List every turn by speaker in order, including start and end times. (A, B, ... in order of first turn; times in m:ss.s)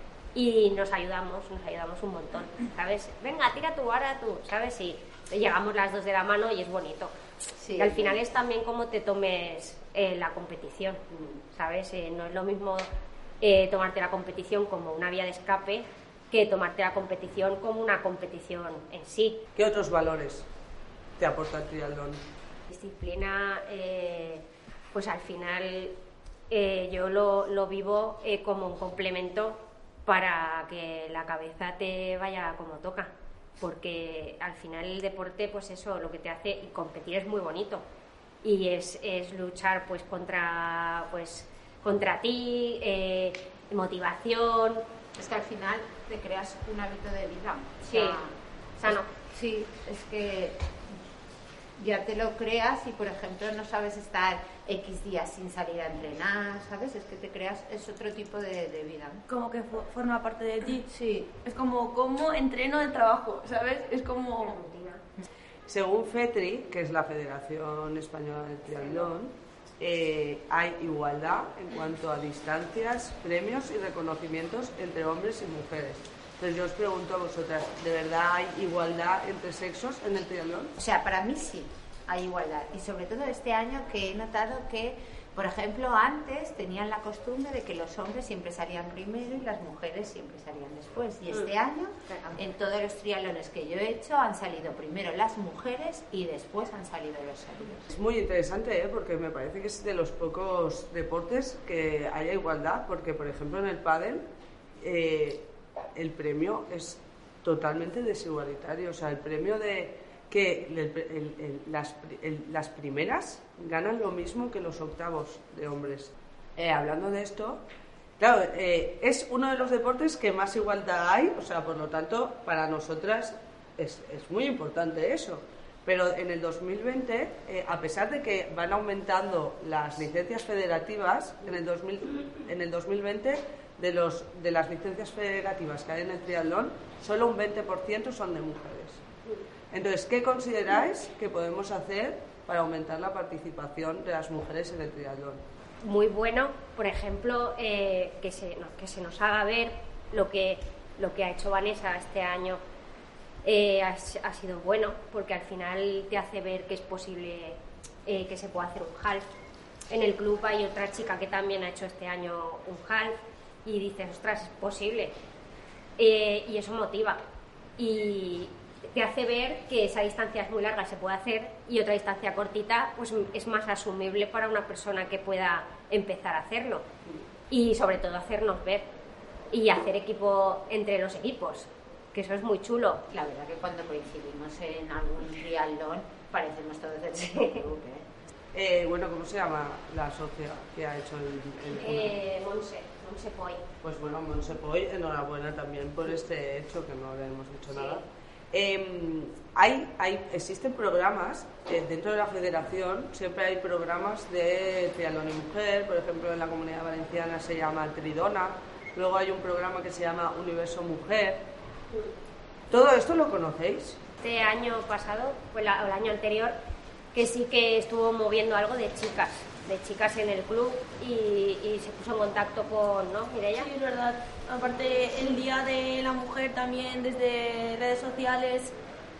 0:00.3-0:07.1 A
0:07.6-0:08.2 B
0:07.8-0:12.9 A
0:11.1-0:11.4 C
0:13.4-0:19.4 A
0:19.6-0:20.4 C
0:21.2-0:22.2 C
0:22.7-0:25.9 A
0:26.5-0:37.8 A
0:38.4-0:44.8 A
0:45.2-0:50.6 B
0:47.8-0:48.2 A
0:48.8-0:49.1 A
0:51.8-0:59.2 B
0:59.3-1:04.6 D
1:04.4-1:05.0 A
1:05.7-1:20.7 C
1:20.8-1:37.9 B
1:32.1-1:32.4 A
1:37.9-1:44.2 C
1:44.8-1:57.6 C
1:58.2-2:19.0 C
2:19.7-2:25.4 C
2:25.8-2:32.6 A
2:33.4-2:39.2 A
2:39.9-2:45.1 A
2:46.0-2:47.2 A
2:47.8-2:56.8 A
2:57.5-2:58.9 A
2:59.5-3:03.0 A
3:03.1-3:08.0 B
3:07.3-3:07.6 A
3:08.5-3:12.1 C
3:11.7-3:13.6 A
3:13.8-3:31.5 C
3:17.7-3:18.0 A
3:32.7-3:34.0 C
3:34.2-3:36.6 A
3:37.1-3:43.7 A
3:43.6-3:48.7 D